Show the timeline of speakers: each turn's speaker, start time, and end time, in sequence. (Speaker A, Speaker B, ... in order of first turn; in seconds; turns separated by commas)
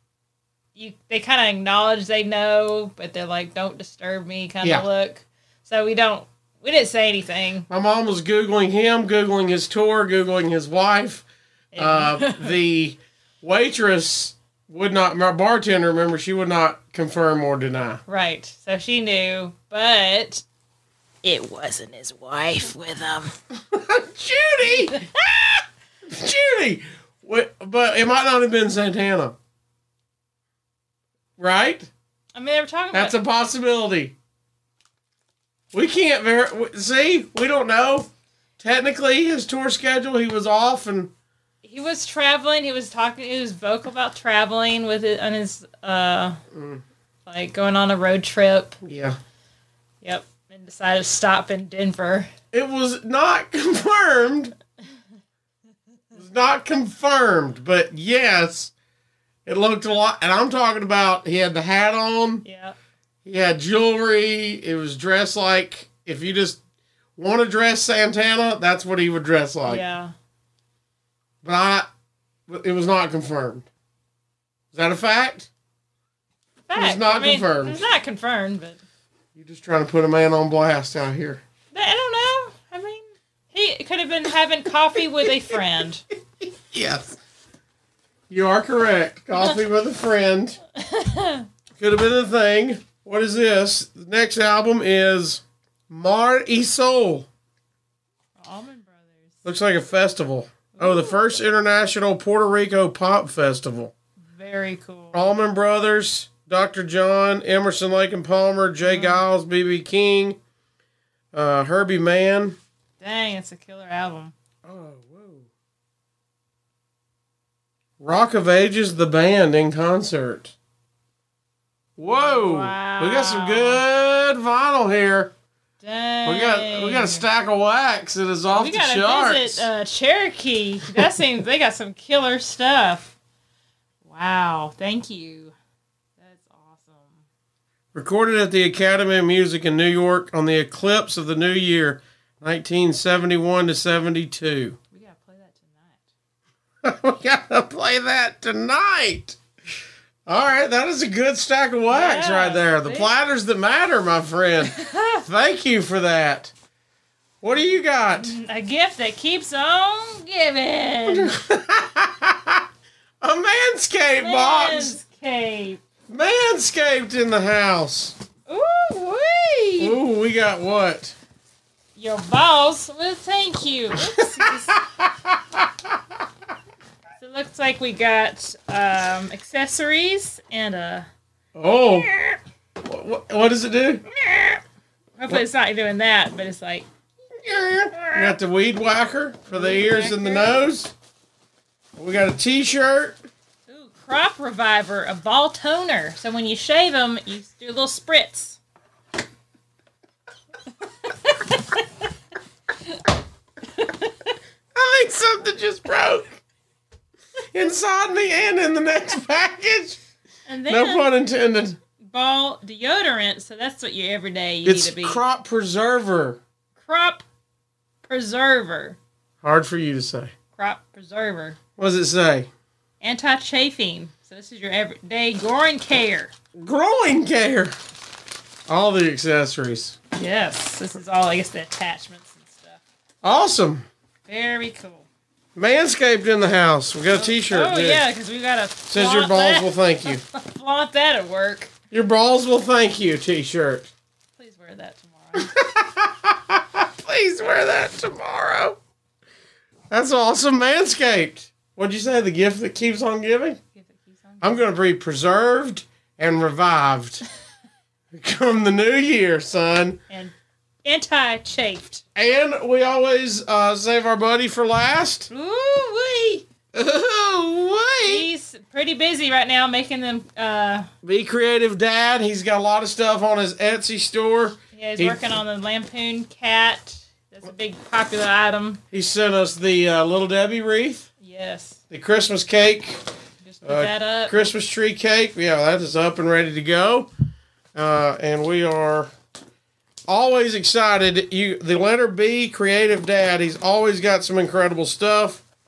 Speaker A: 0.7-7.7, Speaker B: 7.7-18.0, Speaker A: 11.7-12.6, Speaker A: 18.1-20.4, Speaker A: 21.2-23.4, Speaker B: 23.7-25.1, Speaker A: 24.6-25.1, Speaker B: 26.1-29.4, Speaker B: 31.4-31.9, Speaker A: 32.3-33.1, Speaker B: 32.9-34.1, Speaker B: 35.7-38.1, Speaker B: 38.6-41.1, Speaker A: 41.6-46.4, Speaker B: 46.5-46.8, Speaker A: 47.2-48.8, Speaker B: 48.8-49.2, Speaker A: 50.0-52.3, Speaker B: 52.5-54.5, Speaker B: 56.1-58.7, Speaker B: 59.5-62.4, Speaker A: 62.4-62.8, Speaker B: 63.2-66.6, Speaker B: 67.2-69.8, Speaker A: 69.6-70.1, Speaker B: 71.4-71.9, Speaker B: 72.5-73.7, Speaker B: 74.7-75.5, Speaker A: 76.7-78.8, Speaker B: 76.7-77.8, Speaker B: 79.3-81.4, Speaker A: 81.7-86.0, Speaker B: 86.5-87.2, Speaker B: 88.3-90.6, Speaker A: 90.8-91.5, Speaker B: 91.8-97.3, Speaker A: 98.4-99.4, Speaker B: 99.4-103.9, Speaker A: 100.7-101.2, Speaker A: 104.3-105.3, Speaker B: 105.1-110.4, Speaker A: 108.8-109.2, Speaker B: 111.3-112.6, Speaker A: 113.0-114.3, Speaker B: 114.6-115.5, Speaker B: 118.0-120.5, Speaker B: 122.0-125.3, Speaker A: 122.0-123.8, Speaker A: 125.8-127.3, Speaker B: 126.2-129.7, Speaker A: 128.5-133.1, Speaker A: 134.0-135.5, Speaker A: 136.2-137.2, Speaker B: 137.9-144.8, Speaker A: 144.9-146.1, Speaker B: 146.8-149.4, Speaker B: 150.2-156.5, Speaker A: 151.9-153.1, Speaker A: 154.6-155.2, Speaker B: 157.4-158.3, Speaker A: 157.5-161.3, Speaker B: 161.1-162.6, Speaker B: 163.2-165.0, Speaker A: 164.2-165.8, Speaker B: 166.1-168.2, Speaker A: 168.5-170.0, Speaker B: 169.8-171.1, Speaker A: 171.9-174.8, Speaker B: 174.1-175.7, Speaker A: 177.2-181.1, Speaker B: 181.5-182.1, Speaker A: 181.9-182.4, Speaker B: 182.8-184.0, Speaker A: 184.2-184.6, Speaker A: 185.2-186.9, Speaker B: 187.4-190.9, Speaker A: 187.7-188.3, Speaker A: 189.5-190.6, Speaker B: 192.0-193.2, Speaker A: 193.7-198.6, Speaker A: 201.0-201.8, Speaker A: 203.8-204.3, Speaker B: 204.7-206.4, Speaker B: 207.5-210.0, Speaker A: 210.5-211.1, Speaker B: 210.7-211.8, Speaker A: 212.1-215.2, Speaker B: 214.6-216.4, Speaker A: 216.8-217.2, Speaker A: 218.0-219.0, Speaker B: 219.4-220.3, Speaker A: 220.6-221.6, Speaker B: 221.8-222.5, Speaker A: 223.0-226.3, Speaker B: 226.6-227.7, Speaker B: 228.7-230.0, Speaker A: 230.2-232.8, Speaker B: 233.2-233.9, Speaker A: 234.2-235.1, Speaker B: 235.6-238.0, Speaker A: 237.1-241.7, Speaker B: 238.9-240.2, Speaker B: 241.9-243.9, Speaker A: 244.4-245.5, Speaker B: 245.3-248.8, Speaker B: 249.9-253.6, Speaker A: 253.7-254.7, Speaker B: 254.4-257.2, Speaker B: 258.1-260.0, Speaker A: 260.1-260.3, Speaker A: 260.8-262.0, Speaker B: 262.1-265.3, Speaker A: 265.3-266.5, Speaker B: 266.7-268.3, Speaker A: 268.0-270.9, Speaker B: 271.0-275.4, Speaker A: 274.7-278.8, Speaker B: 278.9-281.1, Speaker A: 281.2-281.8, Speaker B: 281.9-283.0, Speaker A: 283.4-284.4, Speaker B: 283.6-287.1, Speaker B: 287.7-289.1, Speaker B: 290.1-295.4